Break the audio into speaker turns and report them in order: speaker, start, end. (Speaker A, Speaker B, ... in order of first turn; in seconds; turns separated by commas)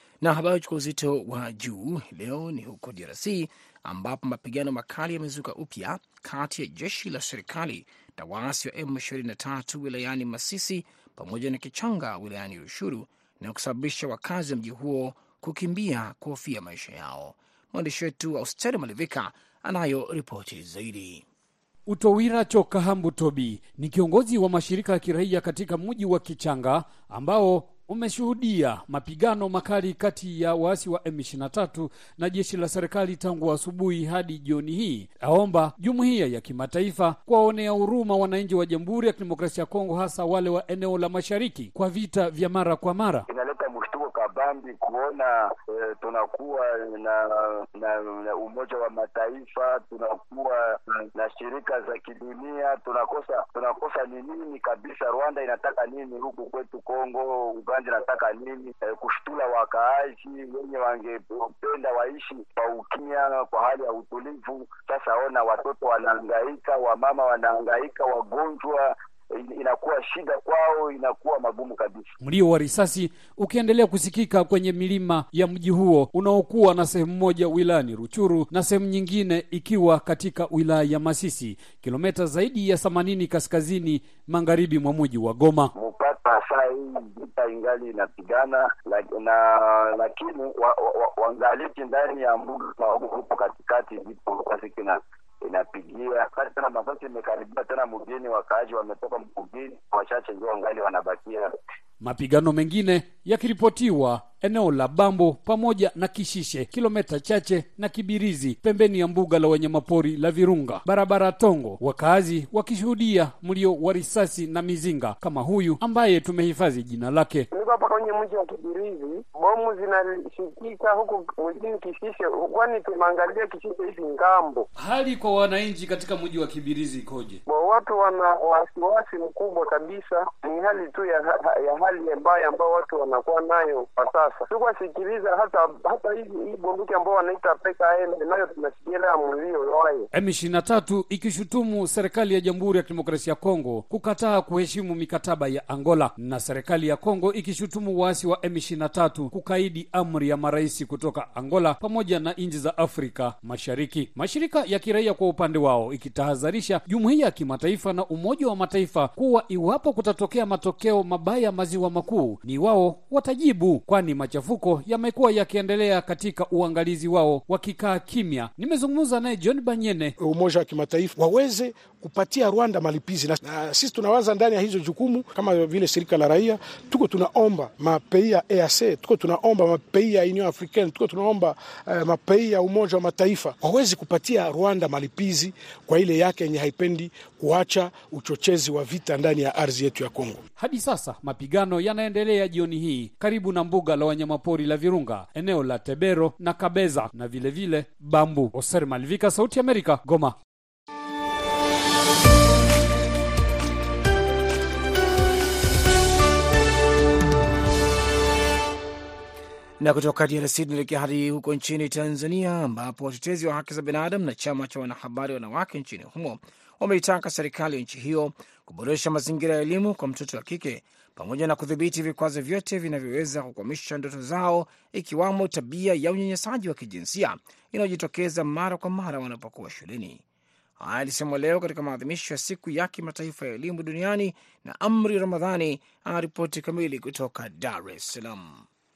Speaker A: 0.2-21.2, Speaker B: 21.9-43.2, Speaker C: 43.3-72.1, Speaker B: 72.2-85.7, Speaker C: 85.7-101.5, Speaker B: 102.0-117.5, Speaker D: 117.5-124.7, Speaker B: 124.8-127.4, Speaker D: 127.5-140.1, Speaker B: 140.1-170.1, Speaker E: 170.2-190.4, Speaker B: 190.6-200.4, Speaker A: 209.8-230.2, Speaker A: 230.8-238.7